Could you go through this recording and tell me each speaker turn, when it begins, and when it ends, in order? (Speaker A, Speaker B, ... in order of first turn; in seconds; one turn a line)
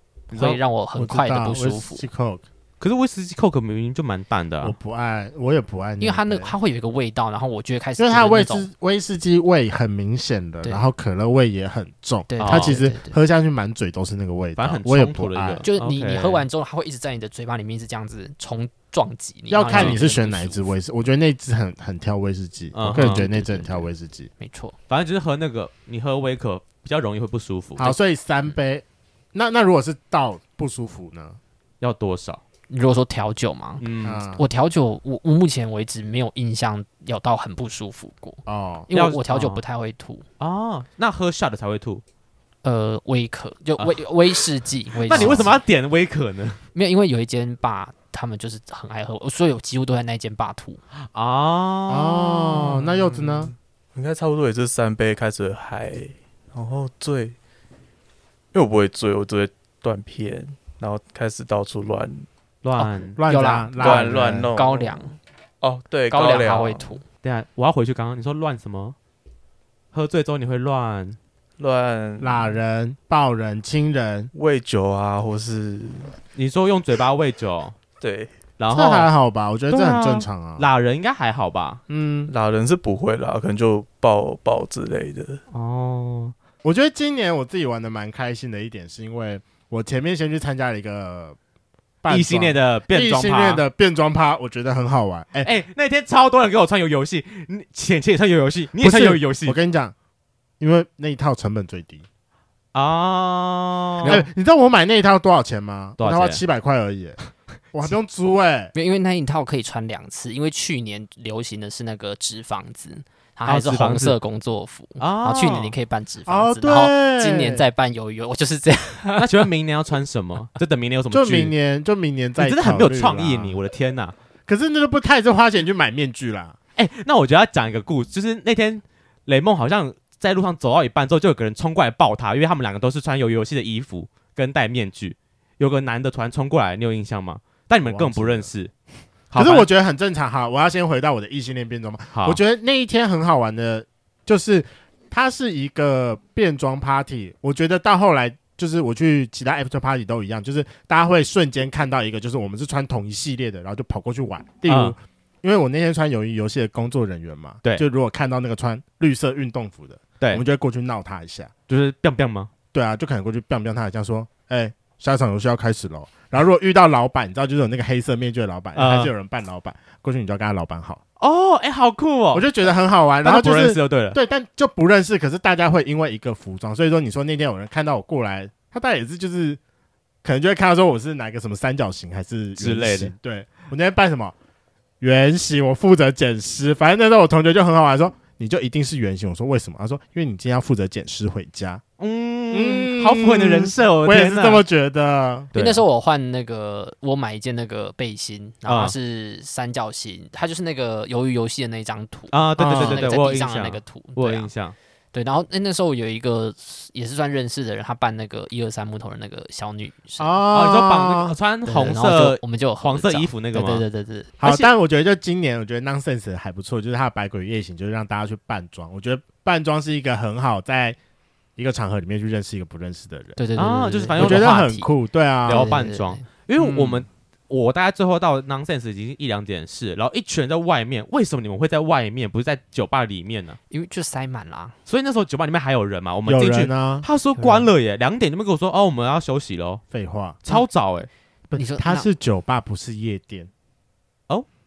Speaker A: 0.3-0.6
Speaker B: 0.3-2.0
Speaker C: 1.0-2.5
Speaker A: 2.8-4.8
Speaker C: 4.6-6.5
Speaker B: 6.0-8.7
Speaker C: 8.0-15.6
Speaker B: 12.3-13.2
Speaker A: 12.4-12.8
Speaker A: 14.6-16.5
Speaker B: 15.6-20.7
Speaker C: 19.5-24.3
Speaker A: 19.7-20.0
Speaker A: 22.7-23.2
Speaker B: 22.9-24.8
Speaker A: 24.9-28.0
Speaker C: 27.8-31.4
Speaker A: 31.8-32.4
Speaker B: 32.7-33.8
Speaker A: 33.8-34.2
Speaker C: 34.0-34.4
Speaker B: 34.4-40.3
Speaker C: 38.5-38.9
Speaker A: 38.9-39.6
Speaker A: 40.4-42.0
Speaker B: 42.6-45.5
Speaker A: 43.8-44.0
Speaker A: 45.0-46.6
Speaker C: 45.1-45.5
Speaker B: 46.7-50.8
Speaker A: 51.0-52.8
Speaker C: 51.9-53.5
Speaker D: 52.6-57.4
Speaker D: 58.5-62.3
Speaker A: 62.6-63.2
Speaker B: 62.8-65.2
Speaker C: 63.1-64.5
Speaker D: 63.8-65.0
Speaker D: 65.6-66.9
Speaker B: 66.1-67.0
Speaker A: 67.2-69.0
Speaker A: 69.9-71.2
Speaker D: 71.6-72.5
Speaker C: 72.2-74.3
Speaker D: 74.3-76.1
Speaker A: 76.3-77.8
Speaker D: 78.0-78.3
Speaker A: 78.6-79.1
Speaker C: 78.7-80.7
Speaker A: 79.7-81.8
Speaker C: 81.9-82.3
Speaker D: 82.3-85.4
Speaker A: 85.5-86.3
Speaker C: 86.6-91.4
Speaker C: 92.0-95.5
Speaker A: 92.1-93.6
Speaker A: 95.4-99.6
Speaker C: 98.8-99.9
Speaker C: 100.6-102.0
Speaker A: 102.7-104.2
Speaker C: 104.0-107.2
Speaker A: 106.0-106.4
Speaker C: 107.7-108.7
Speaker B: 108.7-119.3
Speaker A: 113.5-114.2
Speaker A: 115.0-115.7
Speaker C: 116.3-117.7
Speaker A: 119.2-121.5
Speaker C: 121.1-123.6
Speaker A: 122.4-124.2
Speaker C: 124.5-126.6
Speaker A: 126.8-138.7
Speaker C: 137.8-138.5
Speaker A: 139.3-139.7
Speaker C: 139.4-161.5
Speaker A: 154.7-154.9
Speaker A: 161.7-162.5
Speaker C: 162.7-171.0
Speaker A: 168.8-169.1
Speaker A: 171.2-172.5
Speaker C: 172.3-179.6
Speaker A: 173.2-174.2
Speaker C: 180.2-184.3
Speaker A: 182.6-183.1
Speaker C: 185.0-191.8
Speaker A: 192.0-194.6
Speaker C: 192.5-195.5
Speaker A: 195.5-195.8
Speaker B: 195.6-204.5
Speaker A: 198.7-198.9
Speaker A: 202.3-204.8
Speaker C: 202.6-203.1
Speaker B: 205.1-210.4
Speaker C: 210.2-211.4
Speaker A: 210.5-213.8
Speaker B: 211.7-214.7
Speaker C: 214.4-221.0
Speaker C: 221.6-223.4
Speaker B: 223.4-224.9
Speaker A: 223.6-224.8
Speaker C: 224.2-225.7
Speaker A: 225.5-233.6
Speaker B: 225.5-227.0
Speaker B: 233.7-234.8
Speaker A: 234.9-239.8
Speaker C: 236.3-237.1
Speaker B: 237.4-237.7
Speaker C: 239.9-240.4
Speaker A: 240.4-241.1
Speaker C: 241.5-243.5
Speaker B: 241.6-242.1